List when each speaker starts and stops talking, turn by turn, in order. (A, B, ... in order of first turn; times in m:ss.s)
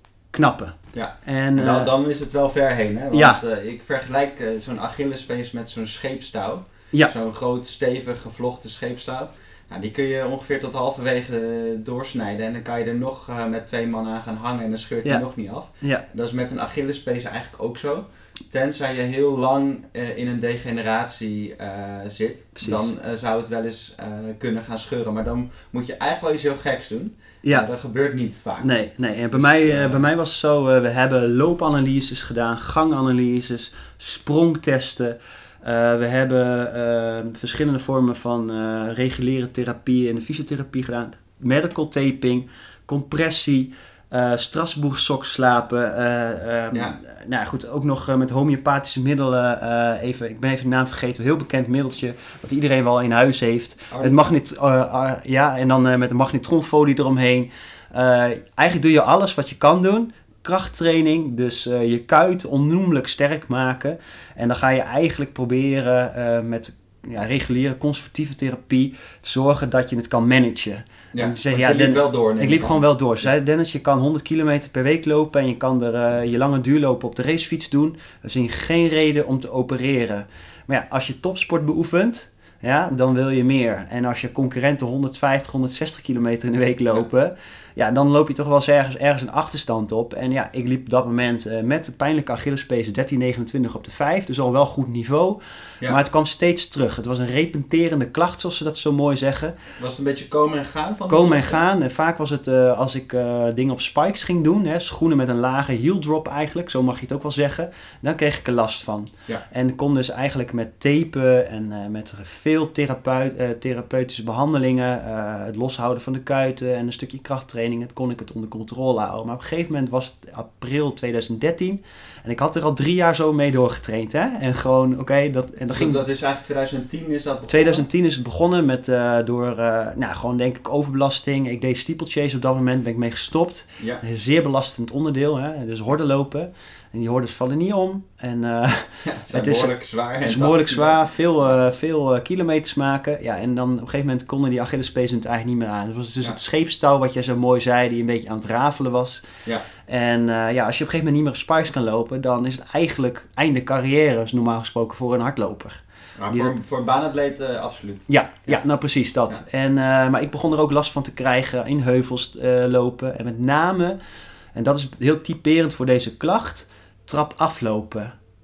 0:00.3-0:01.9 A
0:00.9-0:28.7 B
0:03.1-0:03.4 A
0:22.6-0:22.9 A
0:28.6-1:39.6 A
0:29.3-0:30.0 B
0:46.7-0:47.0 B
0:53.9-0:54.3 B
1:11.1-1:13.3 B
1:39.8-1:41.6 B
1:41.1-2:06.0 A
2:05.7-2:07.8 B
2:07.5-2:29.2 A
2:19.0-2:21.1 B
2:29.8-2:36.5 A
2:36.2-2:38.6 B
2:38.1-2:44.0 A
2:44.5-2:48.1 A